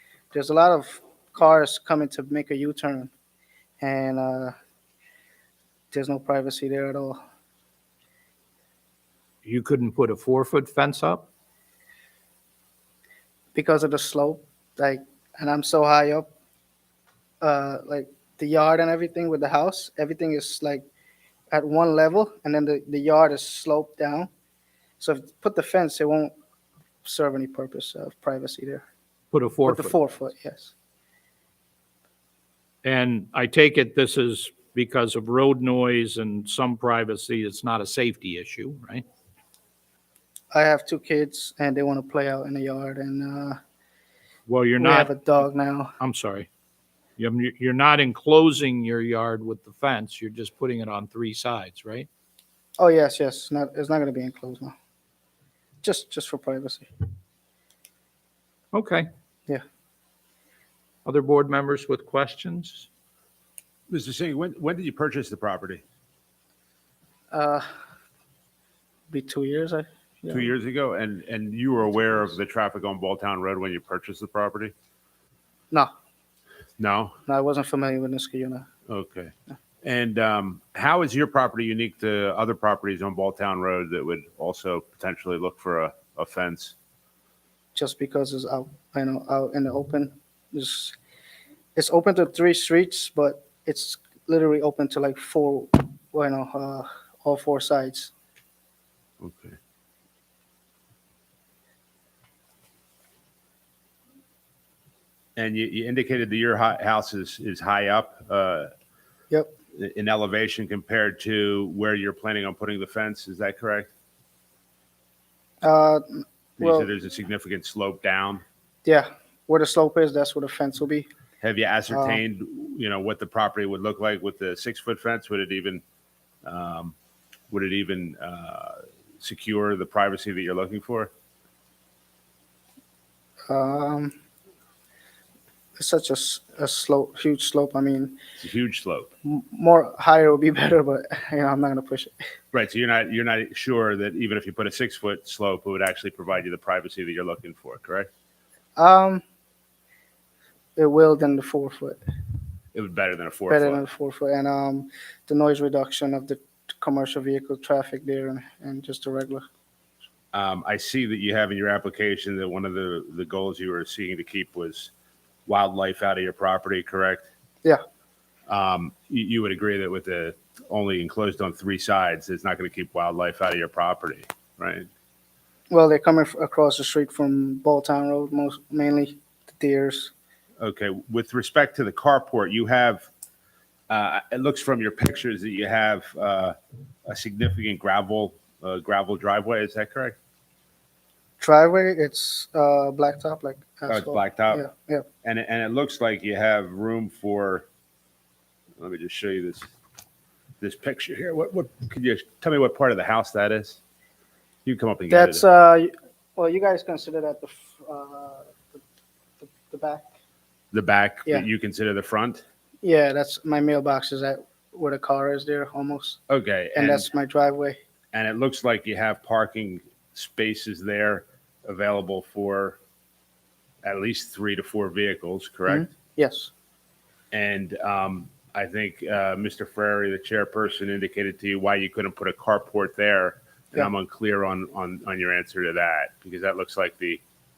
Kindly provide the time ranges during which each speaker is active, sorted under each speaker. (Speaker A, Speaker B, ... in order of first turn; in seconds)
Speaker A: 0.3-3.1, 3.8-4.5, 5.9-7.2, 13.5-16.3, 17.4-20.8, 21.5-24.3, 25.0-26.3, 27.0-28.8, 29.7-30.7, 40.5-43.6, 44.8-45.9, 52.8-54.7, 55.8-56.9, 67.3-67.6, 69.1-70.5, 77.3-78.7, 87.7-91.0, 91.7-98.1, 115.6-116.9, 118.8-121.1, 121.9-122.2, 133.5-134.1, 135.8-138.2, 139.2-142.1, 148.8-149.2, 150.8-152.0, 153.5-159.4, 175.7-180.1, 191.4-195.1, 205.1-208.8, 209.4-210.1, 212.8-216.2, 216.7-217.8, 225.7-226.5
Speaker B: 9.4-11.2, 29.3-29.9, 32.8-39.0, 44.5-45.1, 46.0-46.5, 47.2-52.1, 58.7-59.1, 61.0-62.9
Speaker C: 63.9-65.8, 70.3-74.7, 76.8-77.2, 78.9-86.7, 99.2-99.5, 105.3-108.7, 109.7-113.9, 116.6-118.4, 121.4-125.8, 126.4-126.9, 127.5-131.1, 138.4-139.1, 142.5-148.1, 152.7-153.8, 160.3-164.9, 165.4-167.3, 168.5-174.9, 180.6-183.1, 183.9-186.5, 187.1-190.1, 193.9-194.6, 195.2-197.7, 198.8-199.7, 200.6-203.8, 204.6-205.4, 210.7-212.4, 216.3-217.1, 218.1-222.8, 223.8-225.8, 227.3-237.2